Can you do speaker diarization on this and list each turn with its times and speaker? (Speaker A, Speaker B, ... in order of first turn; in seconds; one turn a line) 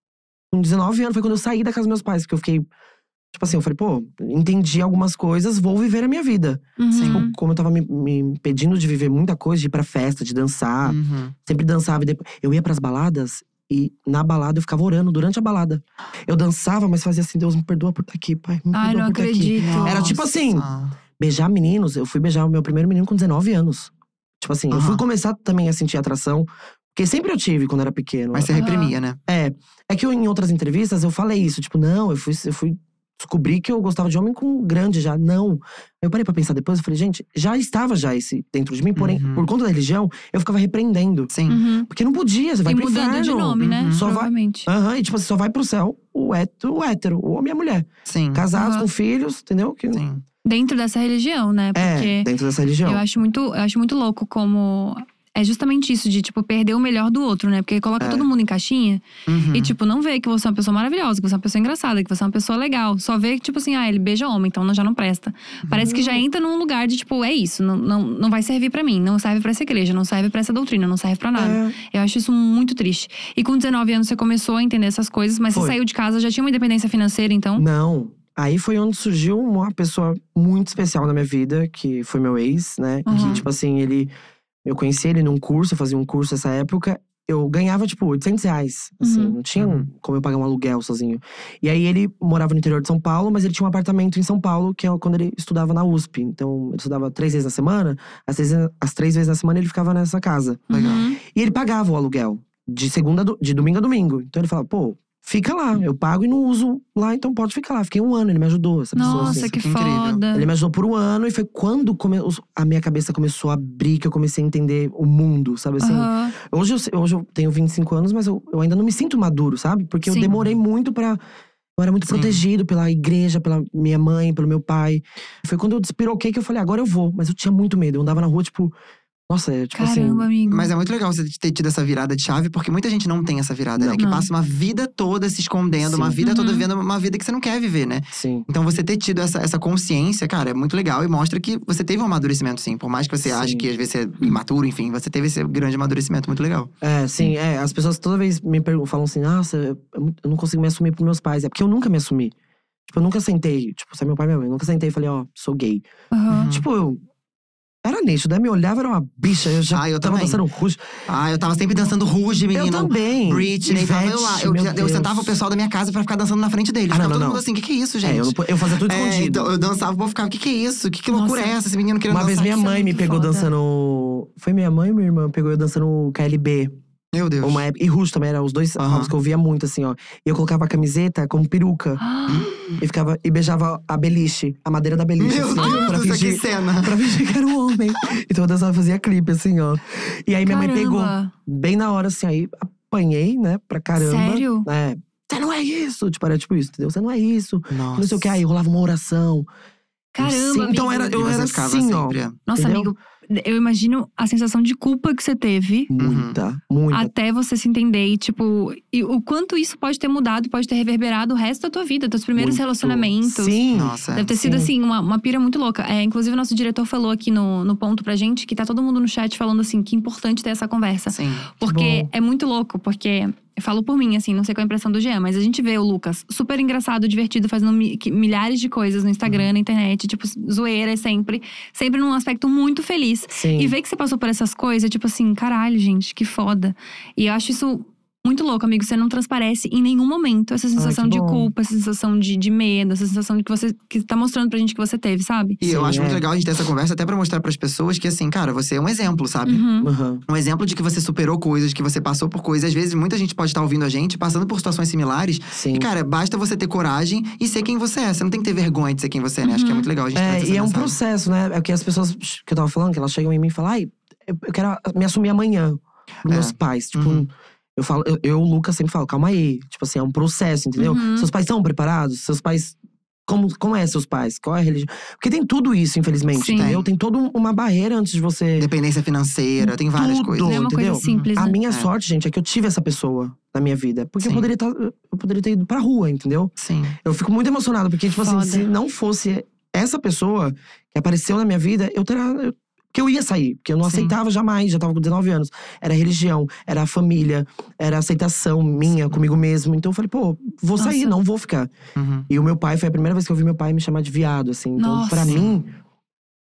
Speaker A: 0.5-2.6
Speaker A: 3.3-20.6
Speaker B: 6.8-7.3
Speaker C: 6.9-7.2
Speaker C: 10.8-11.3
Speaker B: 18.7-20.2
Speaker C: 19.6-20.9
Speaker A: 21.2-28.7
Speaker C: 24.7-25.0
Speaker C: 28.3-29.2
Speaker B: 28.5-28.9
Speaker A: 29.2-41.3
Speaker C: 39.0-39.5
Speaker C: 41.3-41.6
Speaker B: 41.5-41.9
Speaker A: 41.9-50.0
Speaker B: 42.6-44.7
Speaker C: 43.6-44.0
Speaker C: 48.1-48.4
Speaker B: 48.5-48.9
Speaker C: 49.9-50.2
Speaker B: 50.4-52.3
Speaker A: 51.7-53.0
Speaker B: 52.8-77.6
Speaker A: 58.0-58.3
Speaker C: 59.3-59.7
Speaker A: 65.8-66.2
Speaker A: 71.3-71.8
Speaker A: 75.5-75.8
Speaker A: 77.5-84.1
Speaker B: 83.0-83.4
Speaker C: 83.1-83.4
Speaker A: 84.6-109.5
Speaker B: 89.0-89.4
Speaker C: 89.5-89.9
Speaker B: 100.7-101.2
Speaker C: 100.7-101.0
Speaker B: 108.9-110.5
Speaker C: 109.0-110.2
Speaker A: 110.3-121.2
Speaker B: 115.8-116.3
Speaker B: 120.0-120.3
Speaker A: 121.8-128.7
Speaker C: 122.1-122.4
Speaker A: 129.3-130.3
Speaker B: 129.7-130.7
Speaker C: 130.5-146.7
Speaker A: 133.8-134.0
Speaker B: 134.0-134.3
Speaker A: 135.8-136.2
Speaker B: 136.2-136.7
Speaker A: 138.1-138.5
Speaker A: 143.2-143.7
Speaker A: 146.8-152.3
Speaker A: 152.9-155.8
Speaker B: 156.1-156.5
Speaker C: 156.3-156.6
Speaker A: 156.5-157.0
Speaker A: 157.8-161.0
Speaker C: 159.7-160.4
Speaker C: 161.1-172.7
Speaker A: 162.5-165.4
Speaker A: 166.9-167.4
Speaker A: 168.0-169.5
Speaker B: 171.1-171.6
Speaker A: 172.1-176.7
Speaker B: 172.4-173.5
Speaker C: 177.1-177.6
Speaker A: 177.4-182.0
Speaker C: 178.8-179.1
Speaker B: 182.0-182.5
Speaker C: 182.3-182.8
Speaker A: 182.8-199.5
Speaker C: 185.2-187.0
Speaker B: 185.6-185.9
Speaker B: 190.4-191.3
Speaker B: 193.9-194.7
Speaker C: 197.7-198.4
Speaker B: 200.1-201.2
Speaker A: 200.2-202.9
Speaker C: 201.1-202.4
Speaker B: 202.5-205.9
Speaker A: 205.9-207.1
Speaker C: 206.0-206.4
Speaker B: 206.9-245.6
Speaker A: 212.3-214.7
Speaker C: 213.7-214.3
Speaker C: 221.1-221.5
Speaker A: 221.6-222.1
Speaker A: 233.3-233.7
Speaker A: 240.8-241.5
Speaker C: 245.6-249.6
Speaker A: 245.6-246.2
Speaker B: 249.4-249.9
Speaker A: 249.8-250.2
Speaker C: 250.3-260.9
Speaker A: 255.5-255.9
Speaker B: 259.4-259.9
Speaker A: 260.1-272.8
Speaker C: 266.2-267.2
Speaker B: 270.8-271.3
Speaker A: 273.3-278.7
Speaker B: 276.3-276.7
Speaker C: 276.6-276.9
Speaker C: 278.6-281.9
Speaker A: 279.9-301.7
Speaker B: 280.4-281.6
Speaker C: 284.2-284.5
Speaker C: 286.6-287.0
Speaker B: 288.2-288.7
Speaker C: 293.8-294.1
Speaker B: 300.8-301.1
Speaker C: 301.9-302.3
Speaker A: 302.3-305.7
Speaker B: 304.8-305.4
Speaker C: 305.2-305.6